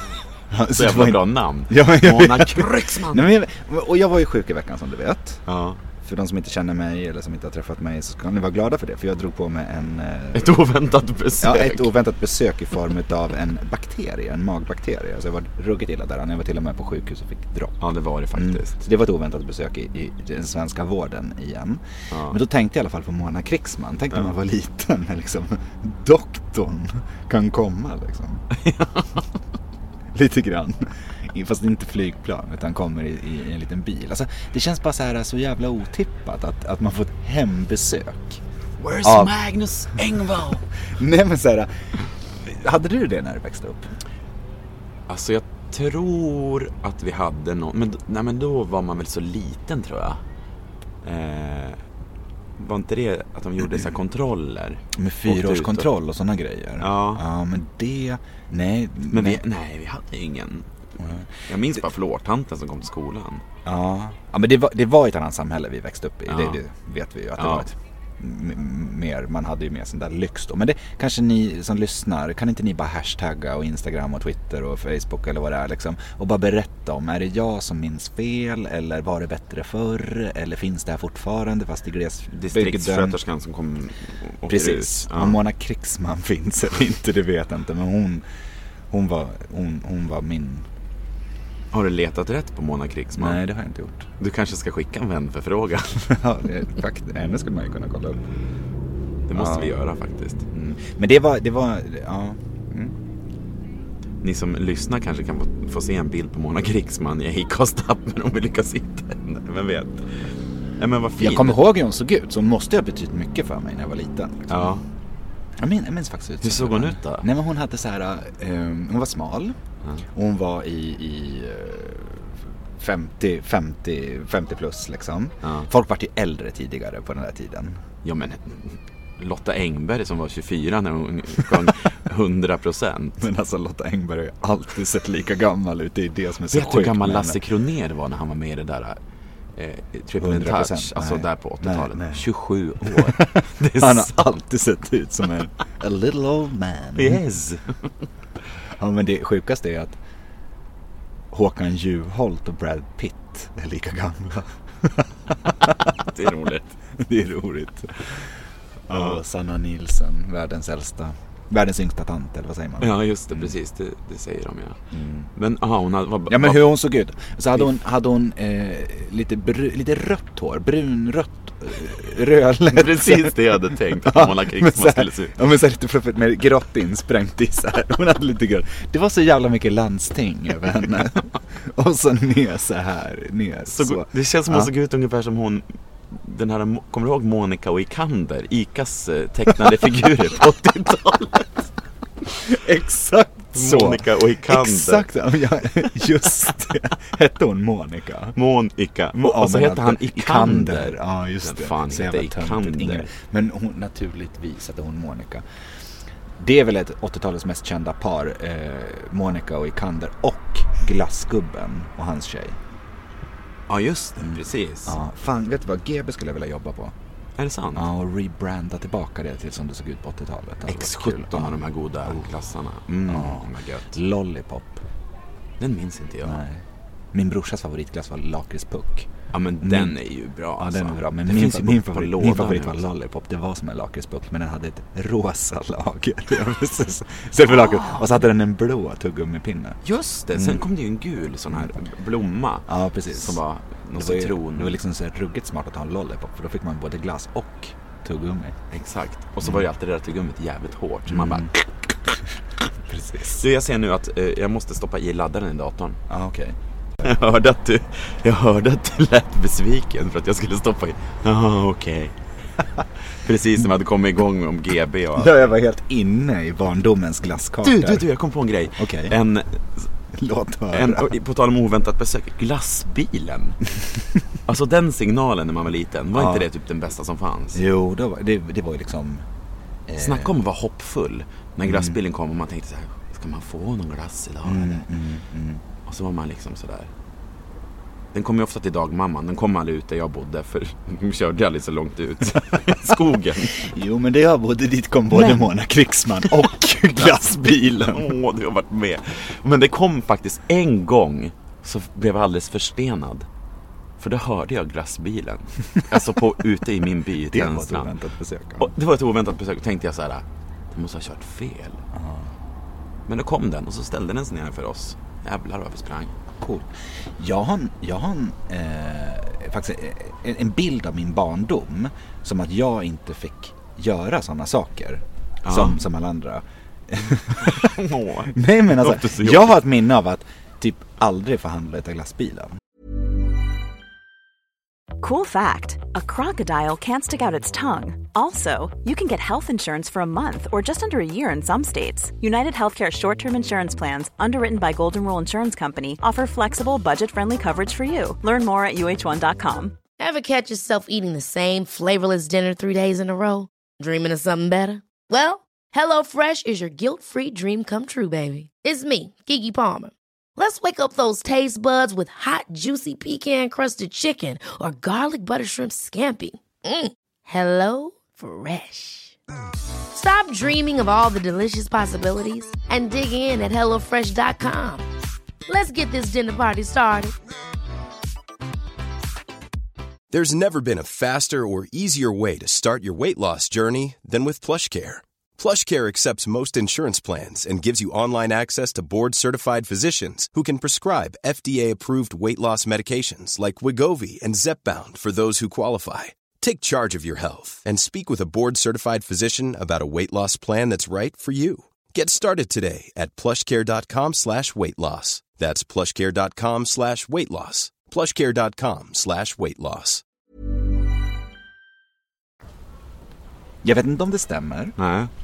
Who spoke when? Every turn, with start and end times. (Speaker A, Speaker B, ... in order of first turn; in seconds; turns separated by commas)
Speaker A: 0.5-5.5, Speaker B: 0.7-3.3, Speaker B: 5.5-5.8, Speaker A: 6.0-10.7, Speaker B: 10.3-11.9, Speaker A: 11.4-17.8, Speaker B: 17.8-18.8, Speaker A: 18.3-28.5, Speaker B: 22.1-22.4, Speaker B: 28.5-29.3, Speaker A: 30.1-38.4, Speaker B: 38.8-40.6, Speaker A: 39.0-39.4, Speaker A: 40.9-43.9, Speaker B: 45.1-50.2, Speaker B: 51.0-51.8, Speaker B: 52.6-55.9, Speaker A: 54.9-59.5, Speaker B: 56.8-57.2, Speaker B: 59.1-60.7, Speaker A: 61.0-61.8, Speaker B: 61.5-63.5, Speaker A: 63.6-83.2, Speaker B: 66.3-66.6, Speaker B: 67.4-67.7, Speaker B: 82.3-85.4, Speaker A: 84.5-88.2, Speaker A: 88.9-90.7, Speaker B: 91.7-93.4, Speaker A: 93.2-94.1, Speaker B: 94.2-96.0, Speaker A: 96.1-98.2, Speaker B: 99.3-100.7, Speaker A: 99.3-99.8, Speaker A: 100.6-103.0, Speaker B: 104.2-110.1, Speaker B: 110.8-111.7, Speaker A: 111.2-114.8, Speaker B: 114.5-114.8, Speaker A: 115.6-119.6, Speaker B: 116.4-117.3, Speaker A: 120.1-127.8, Speaker B: 125.4-125.7, Speaker B: 128.0-133.3, Speaker A: 133.2-137.4, Speaker B: 136.5-139.0, Speaker B: 139.6-144.2, Speaker A: 140.2-142.3, Speaker A: 142.8-147.2, Speaker B: 146.9-147.9, Speaker A: 148.8-150.0, Speaker A: 151.3-156.0, Speaker B: 155.9-156.8, Speaker A: 157.0-158.3, Speaker A: 158.9-163.5, Speaker B: 158.9-159.2, Speaker B: 162.8-164.8, Speaker A: 164.9-165.3, Speaker B: 165.3-166.8, Speaker A: 166.3-184.7, Speaker B: 172.7-175.4, Speaker B: 183.7-191.7, Speaker A: 192.3-198.4, Speaker B: 193.5-195.1, Speaker B: 198.4-203.1, Speaker A: 199.1-205.4, Speaker A: 206.4-212.6, Speaker B: 213.7-215.0, Speaker A: 214.2-216.9, Speaker B: 217.4-217.9, Speaker A: 217.7-222.3, Speaker B: 220.7-224.0, Speaker A: 223.1-224.8, Speaker B: 225.6-226.4, Speaker A: 226.2-229.1, Speaker B: 229.3-232.9, Speaker A: 229.6-230.0, Speaker A: 230.6-239.8, Speaker B: 237.7-238.0, Speaker B: 239.8-244.8, Speaker A: 240.3-240.7, Speaker A: 242.7-243.4, Speaker A: 243.9-248.6, Speaker B: 248.7-251.6, Speaker A: 251.1-251.6, Speaker A: 252.9-253.4, Speaker B: 253.3-256.0, Speaker A: 256.1-256.6, Speaker B: 257.0-262.2, Speaker B: 263.1-265.4, Speaker A: 265.1-268.1, Speaker B: 267.6-269.9, Speaker A: 268.8-269.2, Speaker A: 270.1-271.2, Speaker B: 270.7-273.6, Speaker B: 274.5-277.6, Speaker A: 276.1-276.5, Speaker A: 277.5-279.3, Speaker A: 279.9-280.4, Speaker B: 280.0-284.9, Speaker A: 281.6-282.0, Speaker A: 284.4-285.6, Speaker B: 285.9-286.9, Speaker B: 288.1-293.7, Speaker A: 292.5-293.0, Speaker A: 293.5-298.1, Speaker B: 295.1-295.4, Speaker B: 297.0-303.3, Speaker B: 304.0-307.9, Speaker A: 307.3-308.7, Speaker B: 308.6-311.8, Speaker A: 311.9-312.3, Speaker B: 313.1-316.1, Speaker A: 316.4-332.6, Speaker B: 325.4-325.8, Speaker B: 327.4-329.6, Speaker C: 335.0-349.8, Speaker D: 350.0-369.2, Speaker D: 369.9-374.9, Speaker D: 375.5-377.1, Speaker E: 380.1-410.0, Speaker A: 413.6-414.8, Speaker B: 414.8-415.1